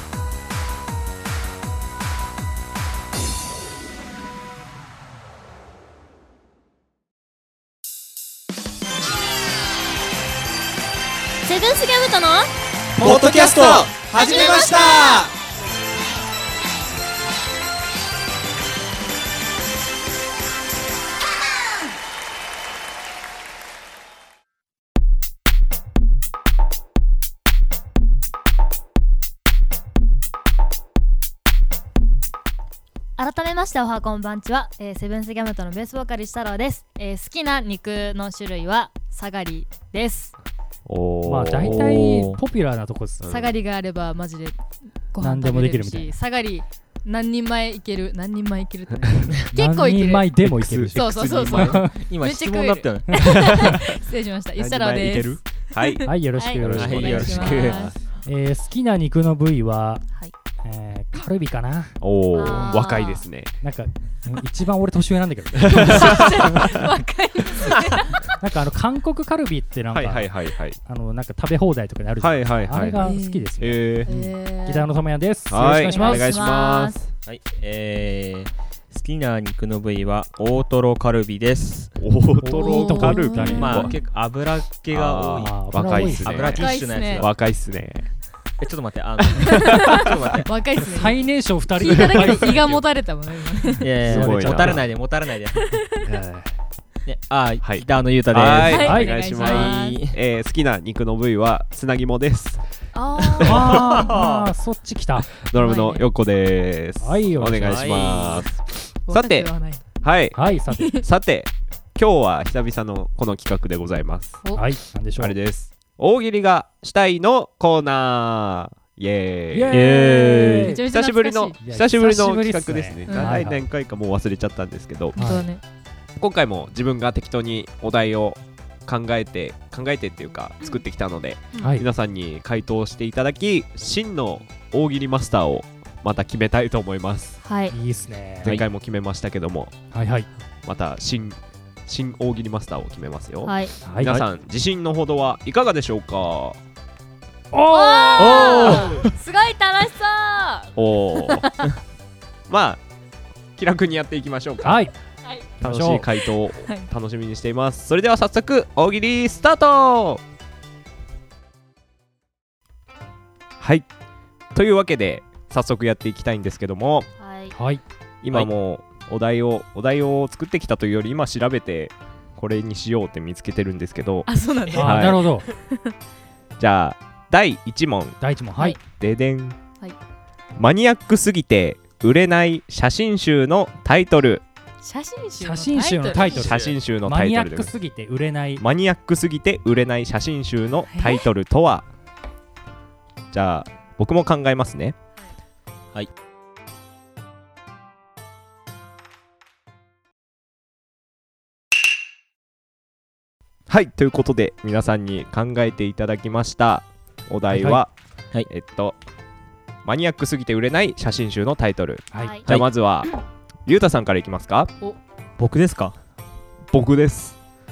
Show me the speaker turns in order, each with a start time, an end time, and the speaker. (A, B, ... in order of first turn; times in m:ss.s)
0:11.4-0:12.5 A
0:13.0-0:13.9 B
0:13.0-0:15.3 C
0:14.2-0:15.2 A
0:33.2-0:40.3 A
0:40.9-0:42.0 C
0:41.2-0:43.2 D
0:41.6-0:42.4 B
0:43.2-0:43.5 C
0:43.3-0:50.3 A
0:45.2-0:46.1 D
0:49.5-0:51.9 D
0:50.4-0:51.8 C
0:50.9-0:57.9 A
0:51.5-0:53.1 B
0:53.2-0:53.7 C
0:54.6-0:57.9 C
0:56.1-0:57.6 D
0:56.7-0:58.0 B
0:58.2-1:00.0 D
1:00.6-1:02.0 D
1:02.0-1:03.5 C
1:02.3-1:03.2 A
1:03.6-1:06.7 D
1:05.7-1:08.2 A
1:05.8-1:06.1 C
1:08.4-1:14.0 D
1:09.9-1:10.8 C
1:12.2-1:14.1 C
1:13.0-1:13.5 A
1:14.1-1:14.9 A
1:14.1-1:14.3 B
1:14.7-1:16.4 D
1:15.5-1:17.1 C
1:15.7-1:17.0 A
1:17.2-1:22.0 B
1:22.0-1:24.0 C
1:22.4-1:23.9 D
1:22.6-1:23.9 A
1:23.6-1:27.3 B
1:24.9-1:28.1 C
1:25.4-1:26.4 D
1:26.5-1:27.3 A
1:28.6-1:30.4 B
1:29.4-1:30.5 C
1:29.5-1:31.2 A
1:30.8-1:32.9 D
1:31.8-1:33.9 A
1:31.9-1:32.3 C
1:33.7-1:34.9 D
1:33.8-1:35.6 B
1:34.0-1:34.8 C
1:35.6-1:35.8 A
1:35.9-1:36.5 D
1:37.1-1:40.2 B
1:37.6-1:42.6 C
1:38.6-1:40.0 A
1:38.7-1:39.2 D
1:42.9-1:43.6 A
1:43.4-1:44.5 B
1:43.4-1:45.3 D
1:45.4-1:54.4 C
1:45.6-1:46.0 A
1:47.0-1:47.9 D
1:47.6-1:48.5 B
1:49.1-1:49.8 A
1:50.3-1:51.0 D
1:54.6-1:55.4 D
1:55.1-2:05.2 C
1:59.5-2:00.8 D
1:59.7-2:00.6 B
2:00.4-2:01.6 A
2:01.6-2:03.6 D
2:03.1-2:03.4 A
2:05.2-2:05.6 A
2:05.2-2:05.5 D
2:06.2-2:17.4 C
2:11.6-2:11.9 D
2:17.4-2:17.8 A
2:17.7-2:18.6 D
2:18.4-2:19.7 C
2:19.9-2:20.3 D
2:20.6-2:26.6 C
2:23.4-2:23.8 A
2:23.8-2:24.2 D
2:27.5-2:28.8 D
2:27.7-2:31.7 A
2:28.2-2:29.0 B
2:30.8-2:31.5 C
2:32.5-2:32.8 C
2:33.6-2:34.9 C
2:34.6-2:34.9 D
2:35.6-2:40.2 C
2:35.6-2:36.1 D
2:36.6-2:36.9 A
2:43.6-2:43.9 C
2:44.5-2:47.1 C
2:47.2-2:47.6 A
2:47.5-2:47.8 D
2:48.2-2:55.2 C
2:54.3-2:54.9 A
2:54.8-2:55.5 D
2:56.6-2:58.2 C
2:58.2-2:58.8 D
2:59.0-2:59.6 C
3:00.6-3:04.4 C
3:04.8-3:06.5 A
3:05.4-3:08.6 D
3:06.2-3:06.7 B
3:06.2-3:07.7 C
3:08.6-3:11.9 C
3:10.9-3:11.2 A
3:13.3-3:15.0 C
3:23.7-3:27.9 C
3:27.5-3:27.8 D
3:28.5-3:29.0 C
3:29.8-3:33.1 C
3:32.1-3:32.4 D
3:32.2-3:32.5 A
3:33.7-3:34.7 C
3:35.4-3:36.0 B
3:36.7-3:37.4 C